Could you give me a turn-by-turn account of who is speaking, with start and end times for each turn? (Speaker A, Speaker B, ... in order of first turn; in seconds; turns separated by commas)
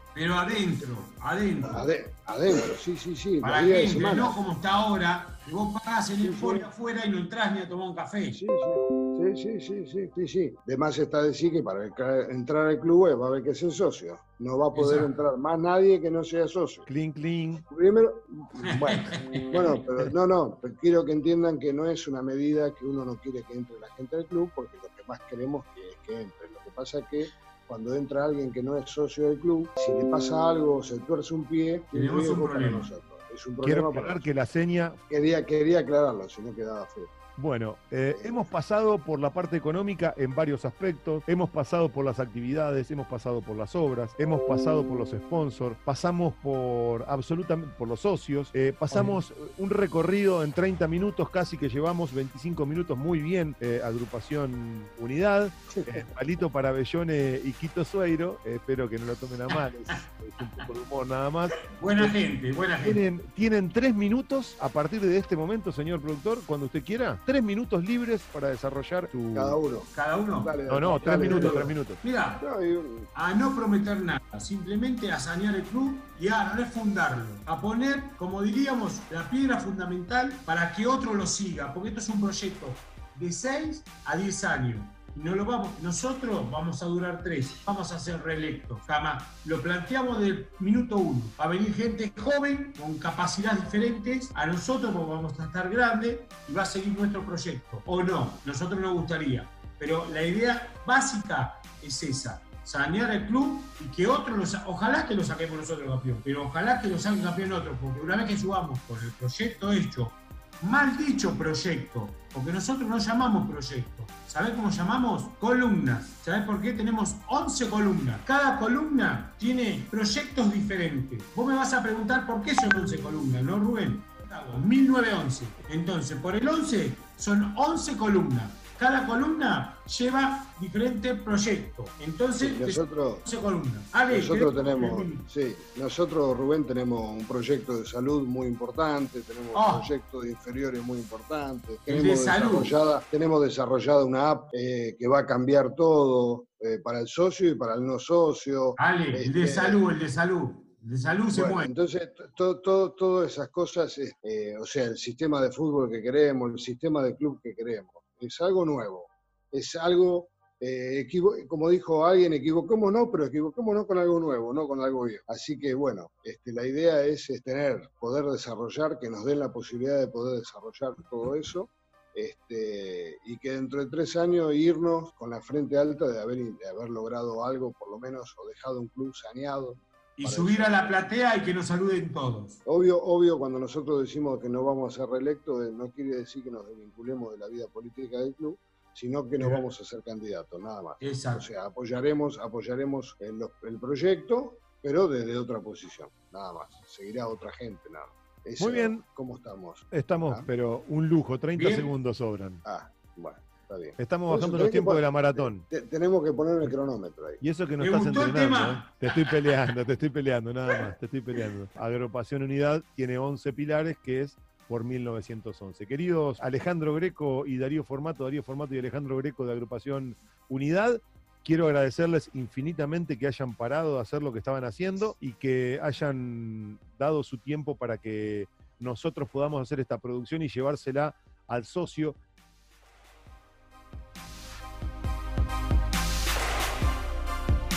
Speaker A: 0.1-1.9, Speaker B: 1.6-4.4, Speaker A: 3.4-8.4, Speaker B: 6.2-6.7, Speaker B: 8.3-16.9, Speaker A: 14.7-15.2, Speaker C: 16.9-17.6, Speaker B: 17.7-34.3, Speaker A: 18.6-19.8, Speaker A: 31.9-32.9, Speaker C: 33.6-35.0, Speaker B: 35.1-37.1, Speaker C: 37.4-62.2, Speaker B: 38.1-38.5, Speaker A: 48.9-49.2, Speaker A: 59.5-60.0, Speaker A: 61.5-63.0, Speaker C: 62.8-69.6, Speaker B: 69.3-71.7, Speaker A: 69.9-72.5, Speaker C: 70.7-72.0, Speaker B: 72.4-73.1, Speaker A: 73.1-135.2, Speaker B: 132.4-133.2, Speaker B: 134.1-149.8, Speaker A: 139.6-139.9, Speaker A: 141.9-142.7, Speaker A: 148.8-151.7, Speaker B: 151.3-181.0, Speaker A: 180.2-182.6, Speaker B: 182.7-200.5, Speaker A: 189.4-189.6, Speaker A: 191.0-191.5, Speaker C: 198.6-199.0, Speaker C: 199.9-202.6, Speaker A: 201.6-201.9, Speaker B: 202.6-207.4, Speaker C: 204.0-205.6, Speaker C: 207.4-232.2, Speaker A: 207.8-209.0